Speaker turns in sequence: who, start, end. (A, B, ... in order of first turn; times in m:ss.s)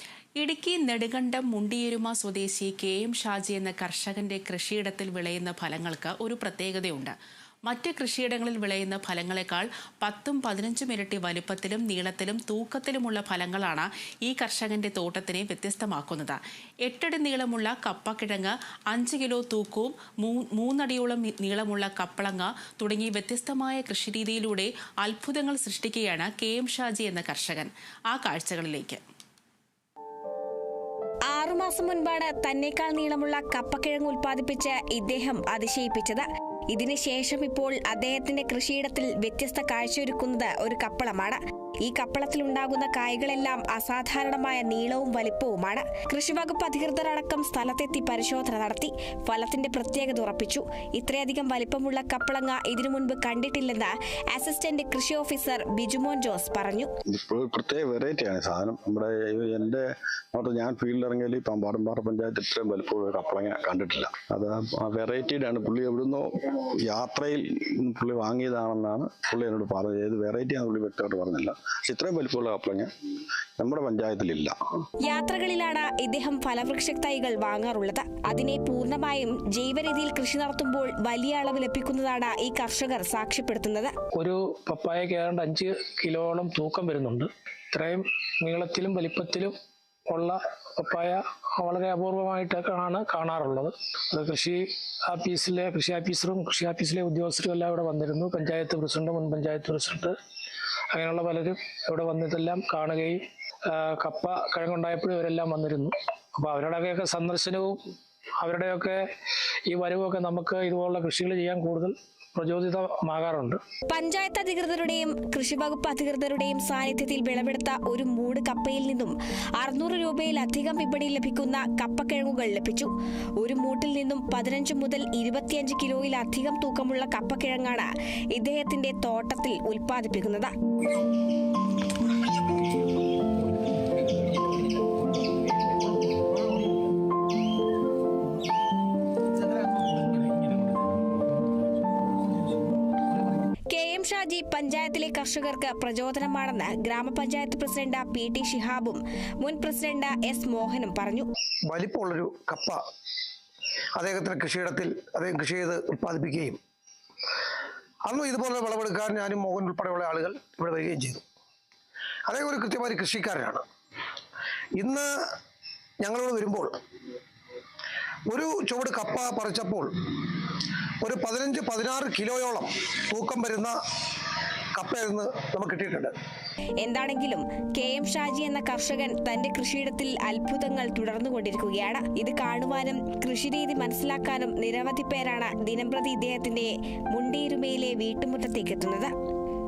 0:00.4-0:29.0 A
0:31.3-0:56.9 B
0:57.1-1:12.9 C
1:13.6-1:14.5 C
1:15.0-1:23.9 B
1:24.1-1:29.5 D
1:30.1-1:40.1 D
1:40.9-1:47.8 D
1:48.4-1:49.0 D
1:49.7-1:53.6 D
1:53.9-2:10.5 B
2:23.7-2:31.3 B
2:31.7-2:32.8 E
2:33.9-2:36.6 E
2:38.0-2:41.2 E
2:42.3-2:43.6 E
2:44.8-2:45.1 E
2:46.0-2:46.8 E
2:48.3-2:49.9 E
2:51.0-2:53.7 E
2:54.7-2:56.1 E
2:56.8-3:09.1 B